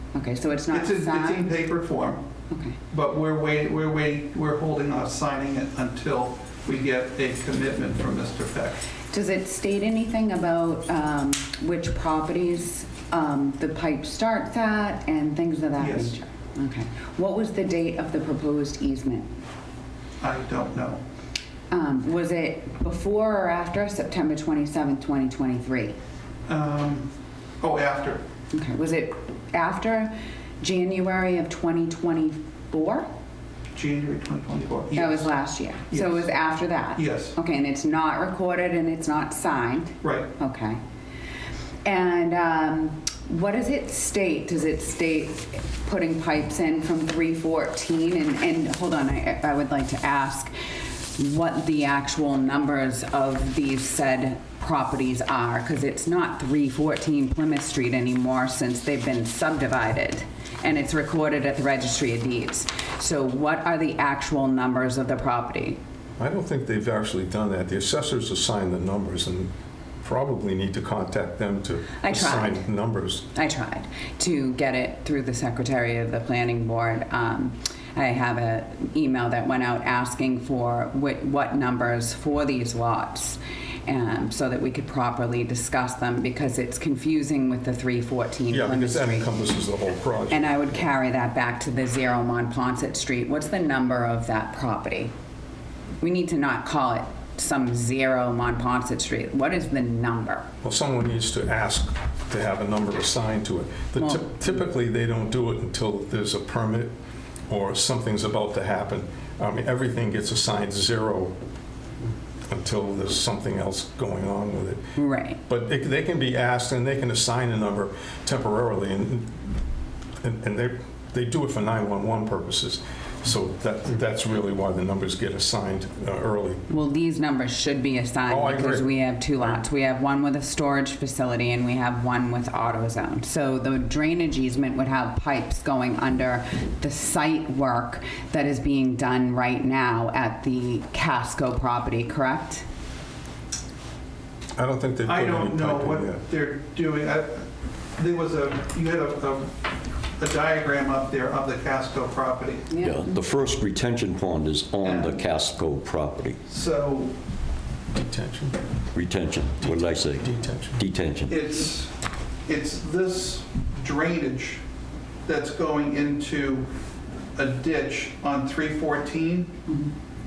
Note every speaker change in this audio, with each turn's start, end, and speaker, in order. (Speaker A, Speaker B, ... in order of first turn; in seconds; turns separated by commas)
Speaker A: 0.1-1.5, Speaker B: 0.7-2.2, Speaker A: 2.5-2.8, Speaker B: 2.9-8.9, Speaker A: 9.1-19.3, Speaker B: 15.8-16.2, Speaker B: 20.2-21.0, Speaker A: 21.7-25.9, Speaker B: 26.5-27.1, Speaker B: 27.6-28.2, Speaker A: 28.5-33.1, Speaker B: 33.7-35.3, Speaker A: 34.9-40.8, Speaker B: 35.9-36.3, Speaker B: 36.9-37.4, Speaker B: 40.0-40.3, Speaker A: 41.8-50.5, Speaker A: 51.1-65.8, Speaker C: 66.2-69.5, Speaker C: 70.0-73.3, Speaker A: 72.0-72.7, Speaker A: 73.3-89.3, Speaker C: 88.5-90.8, Speaker A: 90.3-95.1, Speaker A: 96.0-100.5, Speaker C: 100.6-106.9, Speaker A: 104.0-104.4, Speaker C: 107.5-111.3, Speaker C: 112.5-114.8, Speaker A: 115.0-115.4, Speaker C: 115.5-119.4, Speaker C: 120.2-126.6, Speaker A: 126.7-142.6, Speaker C: 128.3-128.9, Speaker C: 144.6-146.2, Speaker B: 145.0-147.4, Speaker B: 148.0-149.7, Speaker B: 150.2-152.7, Speaker A: 152.7-153.1, Speaker D: 152.8-156.4, Speaker B: 154.8-155.2, Speaker B: 156.5-157.1, Speaker C: 157.9-158.6, Speaker D: 158.9-161.4, Speaker C: 159.6-160.8, Speaker B: 161.3-161.9, Speaker B: 162.5-164.6, Speaker B: 165.2-166.7, Speaker B: 167.3-169.6